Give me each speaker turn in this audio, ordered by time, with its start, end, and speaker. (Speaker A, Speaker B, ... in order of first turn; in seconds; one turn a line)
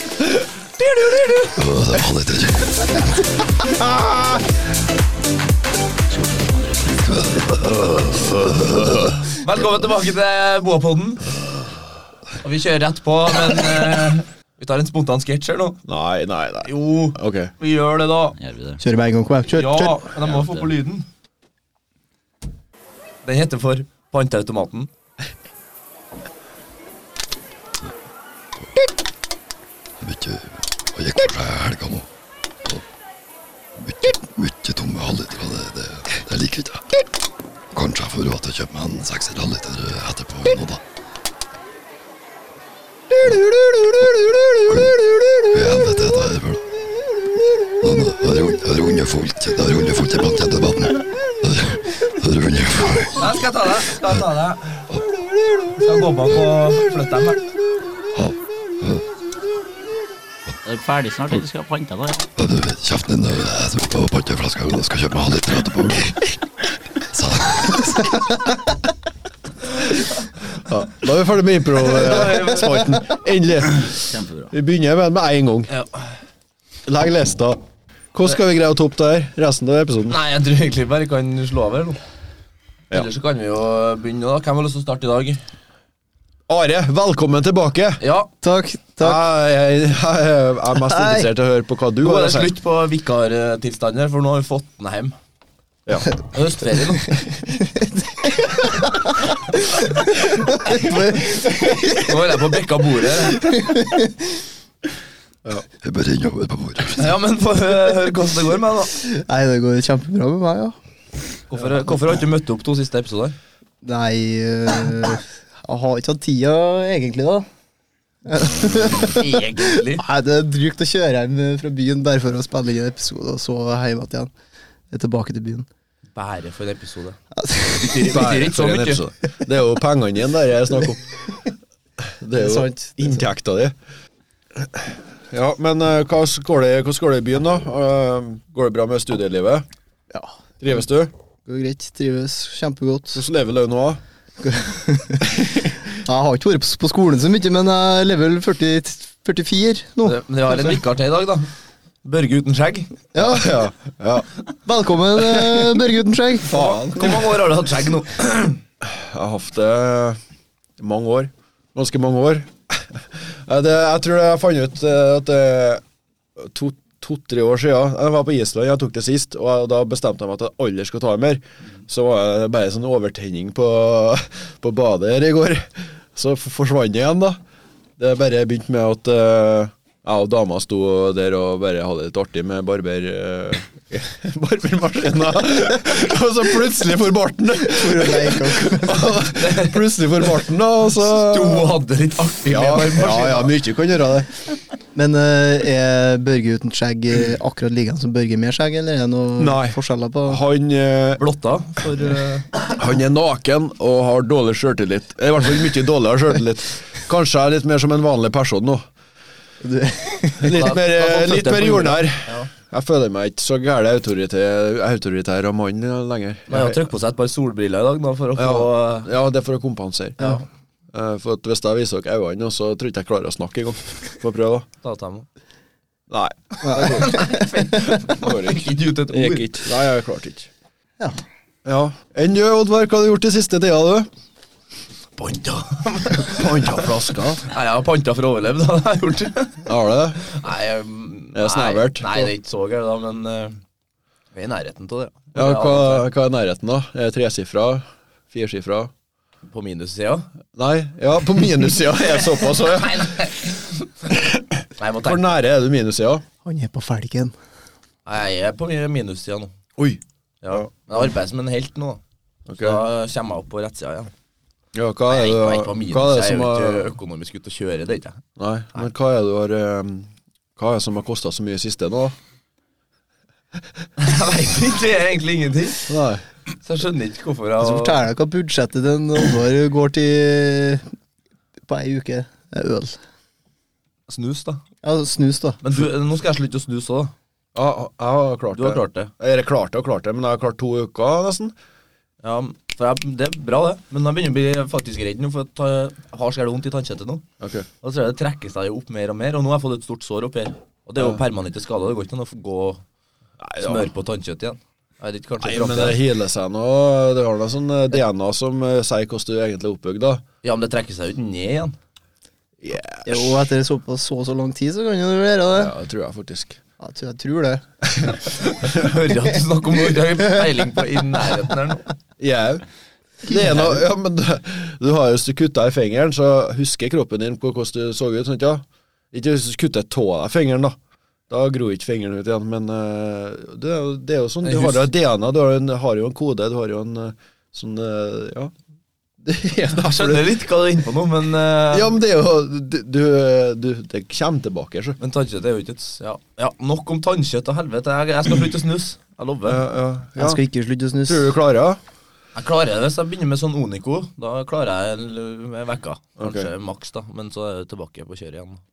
Speaker A: 0.4-1.2
Speaker B: 1.6-3.1
Speaker A: 3.6-4.5
Speaker C: 6.1-7.3
Speaker D: 9.3-11.4
Speaker D: 12.4-15.8
Speaker A: 15.9-17.5
Speaker D: 16.6-18.4
Speaker C: 18.4-18.8
Speaker E: 18.8-20.0
Speaker D: 19.6-21.1
Speaker C: 20.2-20.7
Speaker D: 23.2-24.9
Speaker B: 30.0-32.1
Speaker B: 33.8-36.9
Speaker B: 37.7-40.8
Speaker B: 44.7-46.7
Speaker B: 47.8-53.3
Speaker D: 53.2-54.9
Speaker D: 55.7-57.4
Speaker B: 58.1-59.0
Speaker C: 60.6-62.3
Speaker B: 62.4-66.2
Speaker B: 67.1-68.3
Speaker A: 70.6-74.0
Speaker D: 71.8-73.0
Speaker C: 73.8-74.5
Speaker A: 74.5-75.7
Speaker D: 75.7-76.1
Speaker A: 76.8-77.6
Speaker A: 78.1-80.2
Speaker D: 80.1-82.0
Speaker D: 82.9-85.4
Speaker A: 86.5-88.0
Speaker D: 88.0-88.3
Speaker E: 88.4-89.2
Speaker A: 89.0-92.5
Speaker E: 90.8-91.3
Speaker D: 92.0-95.2
Speaker D: 96.3-97.2
Speaker E: 97.7-102.1
Speaker D: 101.8-103.6
Speaker E: 103.4-104.2
Speaker B: 105.8-107.1
Speaker D: 107.0-108.9
Speaker E: 108.9-110.8
Speaker D: 111.5-113.4
Speaker E: 113.8-117.5
Speaker E: 118.3-124.3
Speaker D: 118.7-120.0
Speaker E: 124.9-125.7
Speaker D: 126.2-127.2
Speaker E: 127.4-128.1
Speaker D: 127.8-129.1
Speaker A: 128.1-131.0
Speaker A: 132.2-133.8
Speaker E: 132.3-133.2
Speaker A: 134.6-139.7
Speaker A: 140.6-141.1
Speaker E: 141.5-143.2
Speaker A: 143.1-144.0
Speaker E: 144.4-150.2
Speaker A: 145.2-145.7
Speaker D: 150.1-151.5
Speaker D: 152.0-153.1
Speaker E: 153.1-153.5
Speaker A: 153.2-154.3
Speaker E: 154.7-156.6
Speaker A: 156.4-157.3
Speaker D: 156.5-158.6
Speaker A: 158.8-160.2
Speaker A: 160.8-165.8
Speaker A: 166.4-177.4
Speaker A: 178.0-191.8
Speaker E: 187.7-189.2
Speaker D: 189.4-189.8
Speaker D: 191.0-193.5
Speaker A: 192.5-194.3
Speaker E: 194.9-200.4
Speaker A: 199.4-201.2
Speaker D: 201.2-202.5
Speaker A: 202.7-208.9
Speaker E: 209.6-210.6
Speaker A: 210.4-216.8
Speaker D: 210.5-212.5
Speaker D: 216.5-219.1
Speaker A: 218.3-224.7
Speaker D: 224.8-225.3
Speaker A: 226.1-227.2
Speaker D: 226.7-229.6
Speaker E: 227.1-227.4
Speaker A: 227.8-230.5
Speaker A: 231.7-234.1
Speaker D: 235.2-239.7
Speaker A: 236.3-237.4
Speaker A: 239.7-240.3
Speaker D: 240.2-243.6
Speaker A: 241.3-242.3
Speaker D: 244.3-246.1
Speaker A: 245.3-248.9
Speaker D: 249.5-250.3
Speaker A: 250.6-253.3
Speaker D: 252.5-253.9
Speaker A: 254.1-256.2
Speaker D: 254.8-255.3
Speaker E: 256.4-257.3
Speaker D: 258.1-259.6
Speaker A: 259.8-260.7
Speaker D: 260.4-264.1
Speaker A: 262.5-262.9
Speaker A: 264.8-266.9
Speaker D: 265.1-268.2
Speaker A: 268.4-272.1
Speaker D: 274.0-275.9
Speaker A: 275.9-276.2
Speaker D: 276.6-278.0
Speaker E: 277.6-280.9
Speaker E: 281.7-283.0
Speaker D: 284.1-284.6
Speaker E: 284.8-285.6
Speaker D: 285.6-287.1
Speaker A: 287.6-291.5
Speaker D: 288.5-289.1
Speaker D: 292.2-297.3
Speaker A: 297.4-297.7
Speaker D: 297.8-302.8
Speaker A: 303.4-303.9
Speaker D: 303.6-306.0
Speaker A: 305.4-310.2
Speaker D: 310.4-311.8
Speaker A: 312.6-313.4
Speaker E: 313.1-315.7
Speaker A: 315.5-316.6
Speaker E: 316.8-317.6
Speaker A: 317.9-318.9
Speaker D: 318.3-321.8
Speaker A: 322.2-322.6
Speaker A: 323.3-330.8
Speaker D: 323.4-323.7
Speaker A: 331.3-338.5
Speaker D: 334.4-334.9
Speaker A: 339.2-340.4
Speaker D: 339.7-341.9
Speaker A: 341.7-345.0
Speaker D: 345.0-349.6
Speaker A: 349.4-350.4
Speaker E: 350.2-351.3
Speaker A: 351.1-351.8
Speaker D: 352.4-358.6
Speaker A: 356.2-356.5